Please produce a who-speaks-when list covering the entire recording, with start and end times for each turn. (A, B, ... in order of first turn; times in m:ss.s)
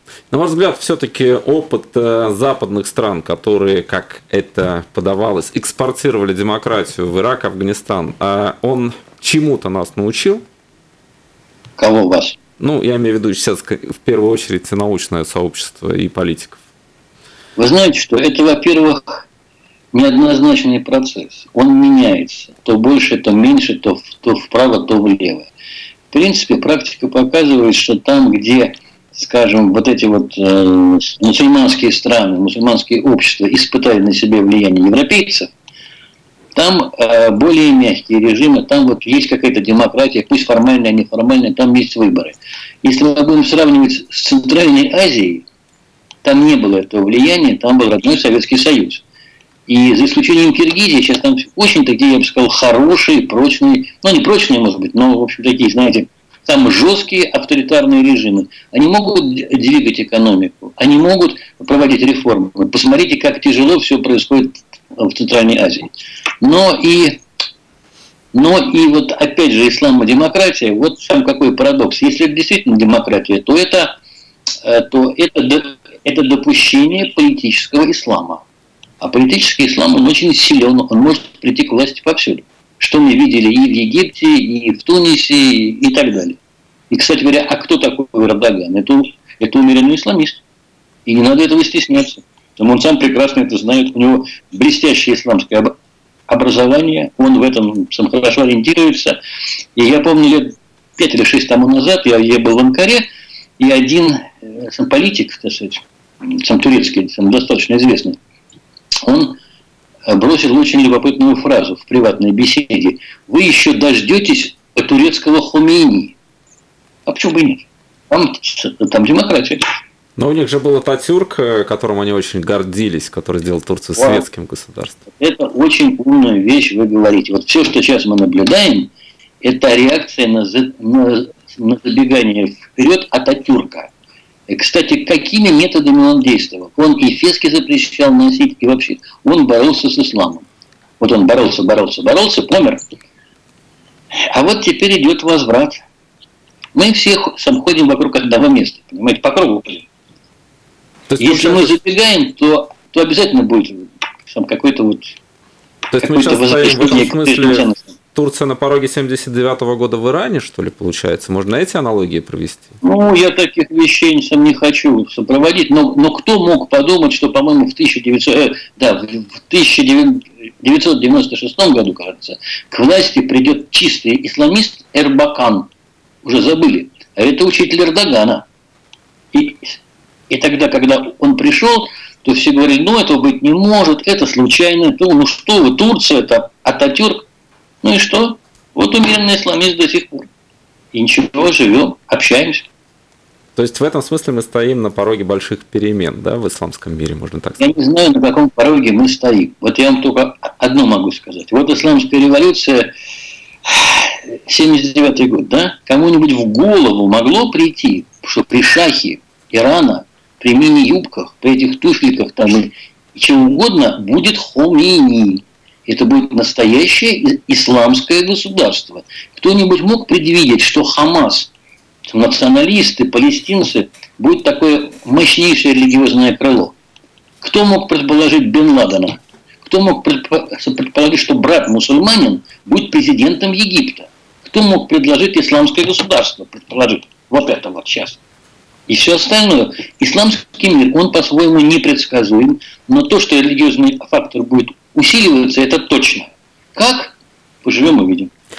0:00.3-0:10.4 A
0:11.8-0:12.4 B
0:12.6-0:16.6 A
0:17.6-0:19.2 B
0:19.9-0:25.5 B
0:26.1-0:35.5 B
0:36.5-0:45.4 B
0:46.2-0:49.0 B
0:49.7-1:05.9 B
1:06.4-1:07.2 B
1:08.3-1:14.0 B
1:14.6-1:18.4 B
1:19.0-1:26.4 B
1:26.9-1:30.4 B
1:31.0-1:35.7 B
1:36.3-1:39.2 B
1:39.8-1:43.1 B
1:43.6-1:48.2 B
1:49.0-1:49.4 B
1:50.1-1:56.1 B
1:57.0-1:59.6 B
2:00.2-2:05.0 A
2:04.0-2:04.2 B
2:05.1-2:08.9 B
2:09.4-2:13.9 B
2:14.5-2:20.4 B
2:21.0-2:22.8 B
2:24.3-2:25.8 B
2:26.7-2:29.8 B
2:31.1-2:31.8 A
2:31.2-2:35.2 B
2:35.9-2:42.7 A
2:36.0-2:37.8 B
2:42.8-2:55.7 B
2:56.2-2:58.4 B
2:59.3-2:59.8 B
3:00.3-3:07.2 B
3:07.8-3:10.3 B
3:10.9-3:12.6 B
3:13.6-3:17.7 A
3:17.6-3:22.9 B
3:23.7-3:41.5 B
3:42.1-3:46.7 B
3:47.4-3:58.2 B
3:58.9-4:08.3 B